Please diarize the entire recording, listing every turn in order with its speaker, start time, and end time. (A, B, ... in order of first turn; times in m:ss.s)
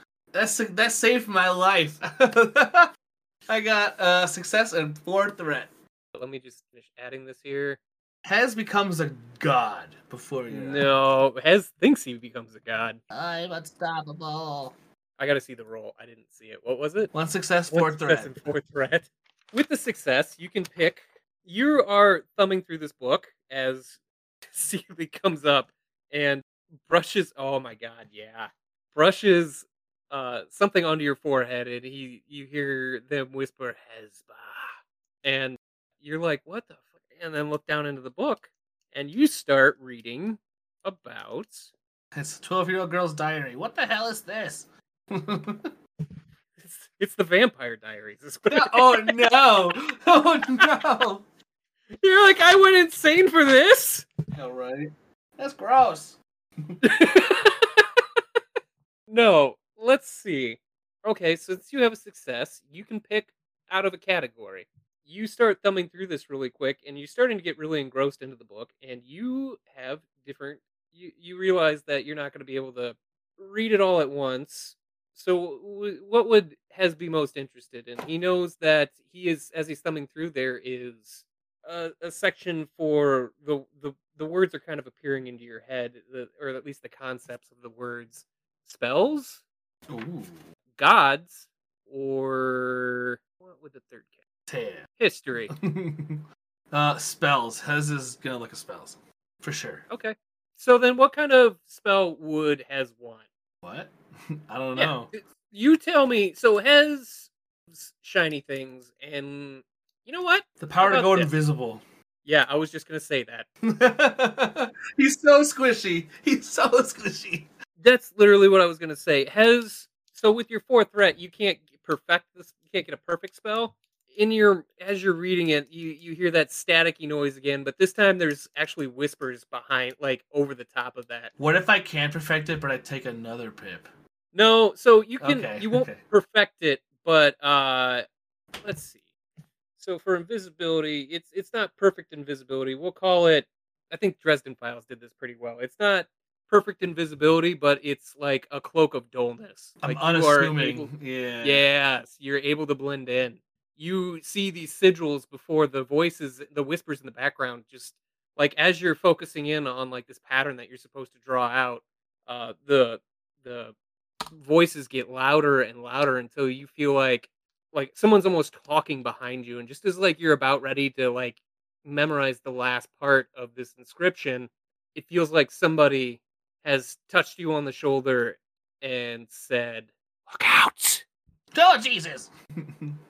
0:00.3-0:02.9 A
0:03.5-0:05.7 A
0:06.2-0:07.8 B
0:08.2-0:10.9 A
0:10.5-0:13.0 B
0:13.1-0:14.8 A
0:15.2-0:17.1 B
0:17.1-0:18.4 A
0:17.7-0:24.0 B
0:24.5-0:41.7 B
0:42.1-0:45.7 A
0:46.6-0:49.4 B
0:48.5-0:51.2 A
0:52.0-0:54.1 B
0:54.3-0:56.8 A
0:56.8-0:58.0 B
0:59.1-1:29.4 B
1:29.9-1:30.4 A
1:30.8-1:34.1 B
1:34.5-1:34.9 A
1:35.0-1:35.5 B
1:35.5-1:39.8 A
1:39.9-1:43.2 B
1:43.6-1:45.1 A
1:44.8-1:51.3 B
1:50.6-1:51.8 A
1:52.2-1:53.5 B
1:53.6-1:57.5 A
1:57.8-2:11.3 B
2:11.4-2:13.9 A
2:14.3-2:18.0 B
2:15.2-2:16.0 A
2:18.6-2:19.0 B
2:19.8-2:30.9 B
2:29.8-2:31.6 A
2:31.4-2:43.8 B
2:44.3-3:01.0 B
3:01.5-3:03.0 A